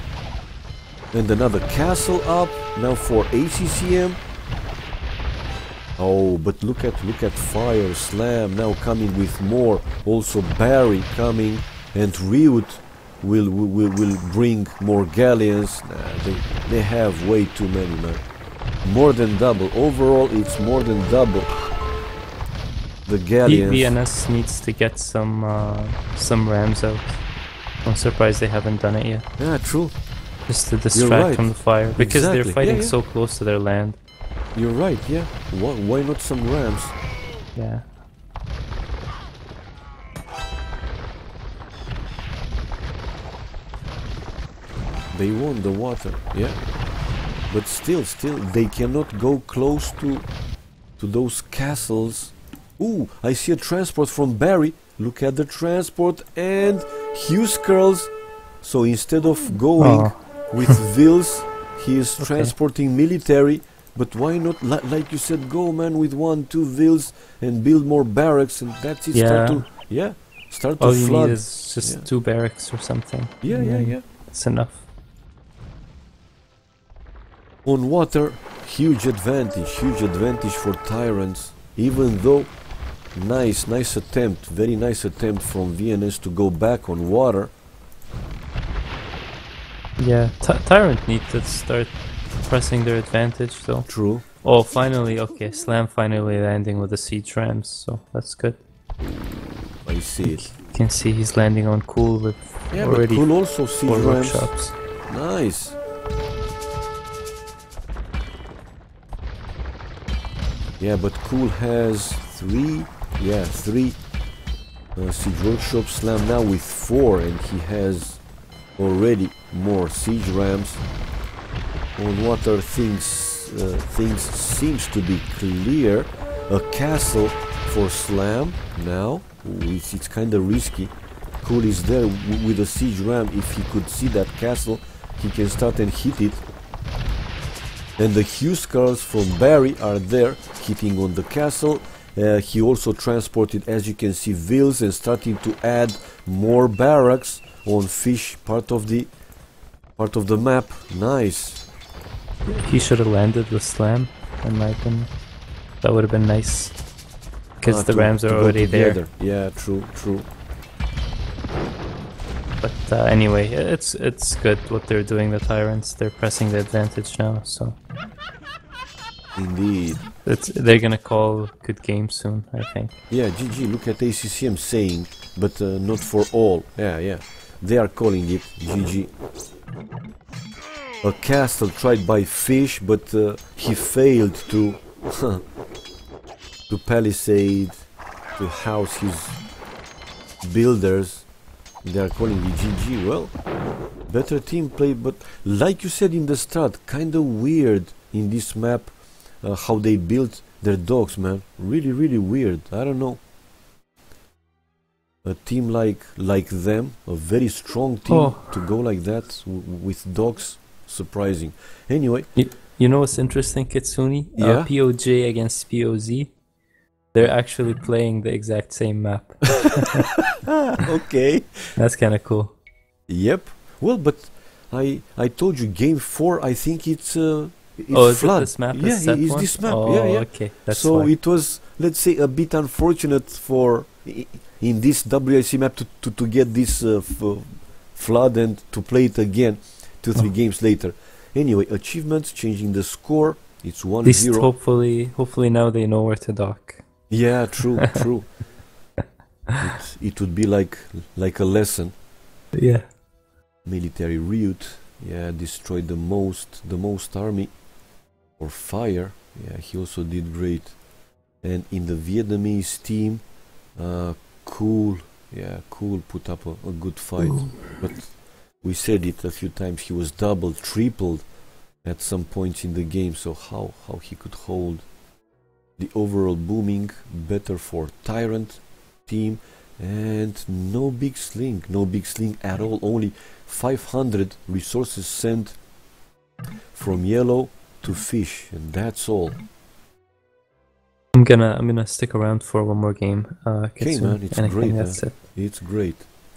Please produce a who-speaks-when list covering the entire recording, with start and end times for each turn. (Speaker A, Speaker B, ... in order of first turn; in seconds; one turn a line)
Speaker A: 1.1-4.2
Speaker A: 6.0-18.2
Speaker A: 18.8-21.5
Speaker A: 23.1-23.9
Speaker B: 23.4-27.2
Speaker B: 27.8-29.3
Speaker A: 29.4-29.9
Speaker B: 30.5-34.0
Speaker A: 30.9-33.0
Speaker A: 34.5-37.0
Speaker B: 37.6-37.9
Speaker A: 45.1-46.6
Speaker A: 47.5-50.3
Speaker A: 51.0-72.1
Speaker B: 59.8-60.1
Speaker B: 62.2-62.5
Speaker B: 69.1-69.7
Speaker B: 70.8-74.9
Speaker A: 73.4-74.0
Speaker A: 77.7-82.5
Speaker A: 83.2-87.5
Speaker B: 90.0-98.6
Speaker A: 93.9-94.2
Speaker A: 99.0-100.5
Speaker B: 100.2-104.7
Speaker A: 102.7-104.5
Speaker A: 105.1-105.8
Speaker A: 110.8-114.0
Speaker A: 115.0-118.2
Speaker A: 118.8-120.8
Speaker A: 122.0-136.4
Speaker A: 138.0-149.1
Speaker A: 150.0-151.7
Speaker B: 152.5-155.1
Speaker B: 155.8-156.8
Speaker B: 157.6-159.0
Speaker A: 157.6-160.3
Speaker B: 162.6-167.8
Speaker A: 169.4-170.1
Speaker B: 170.2-173.0
Speaker A: 173.1-179.1
Speaker A: 181.0-185.4
Speaker A: 186.7-189.4
Speaker A: 190.4-191.3
Speaker A: 191.8-193.3
Speaker A: 194.1-203.2
Speaker A: 205.2-212.3
Speaker B: 208.1-208.7
Speaker B: 212.3-216.3
Speaker A: 214.4-214.7
Speaker B: 217.1-220.1
Speaker A: 219.7-221.8
Speaker B: 221.8-222.6
Speaker A: 223.1-244.5
Speaker B: 227.9-231.1
Speaker B: 244.1-246.8
Speaker A: 247.1-248.3
Speaker A: 249.6-252.0
Speaker B: 252.5-252.9
Speaker A: 253.7-257.5
Speaker A: 258.4-260.8
Speaker A: 261.4-263.2
Speaker A: 263.8-271.3
Speaker B: 267.2-267.9
Speaker A: 271.8-274.9
Speaker A: 275.8-285.6
Speaker A: 286.7-289.4
Speaker B: 291.1-295.2
Speaker A: 293.8-296.1